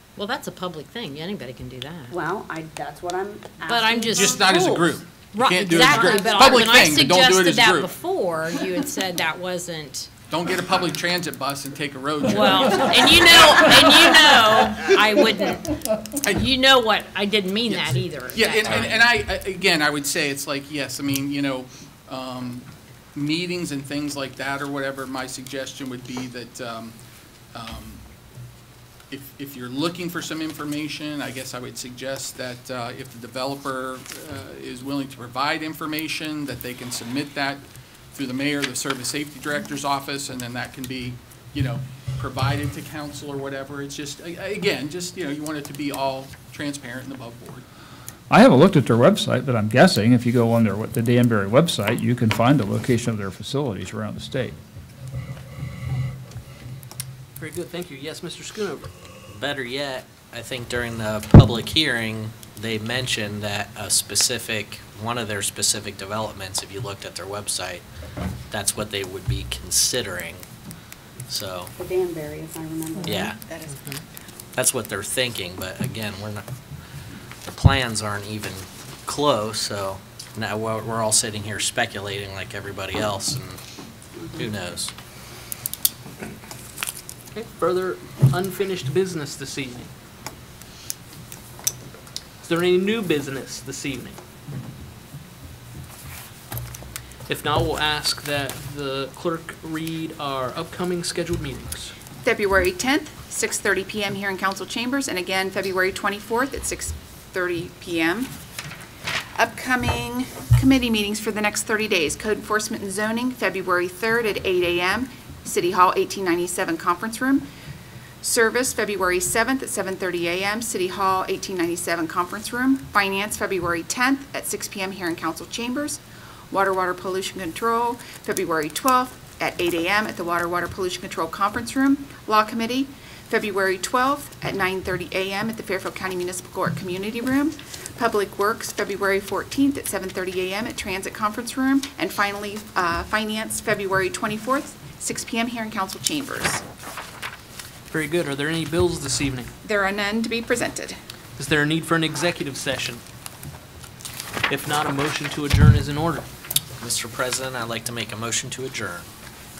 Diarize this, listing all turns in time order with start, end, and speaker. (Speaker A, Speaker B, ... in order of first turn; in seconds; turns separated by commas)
Speaker A: 0.1-2.1, Speaker B: 2.1-4.4, Speaker A: 3.6-10.1, Speaker C: 4.2-7.9, Speaker B: 5.9-6.5, Speaker C: 10.3-14.0, Speaker A: 12.3-15.7, Speaker A: 16.2-19.0, Speaker C: 17.7-27.0, Speaker C: 27.5-28.0, Speaker C: 29.1-37.6, Speaker C: 38.1-47.6, Speaker D: 48.3-54.6, Speaker E: 57.4-58.9, Speaker F: 59.3-67.8, Speaker F: 68.5-70.4, Speaker F: 71.3-71.7, Speaker B: 71.8-73.3, Speaker F: 73.1-73.3, Speaker G: 73.4-73.9, Speaker F: 74.5-76.4, Speaker F: 77.5-83.6, Speaker B: 84.2-84.5, Speaker F: 84.3-84.9, Speaker E: 87.3-89.9, Speaker E: 92.4-94.2, Speaker E: 97.3-101.9, Speaker G: 102.2-108.3, Speaker G: 109.4-117.5, Speaker G: 118.2-146.6, Speaker E: 147.9-149.5, Speaker G: 149.6-151.0, Speaker E: 151.4-153.0, Speaker E: 154.5-156.3, Speaker F: 156.8-159.1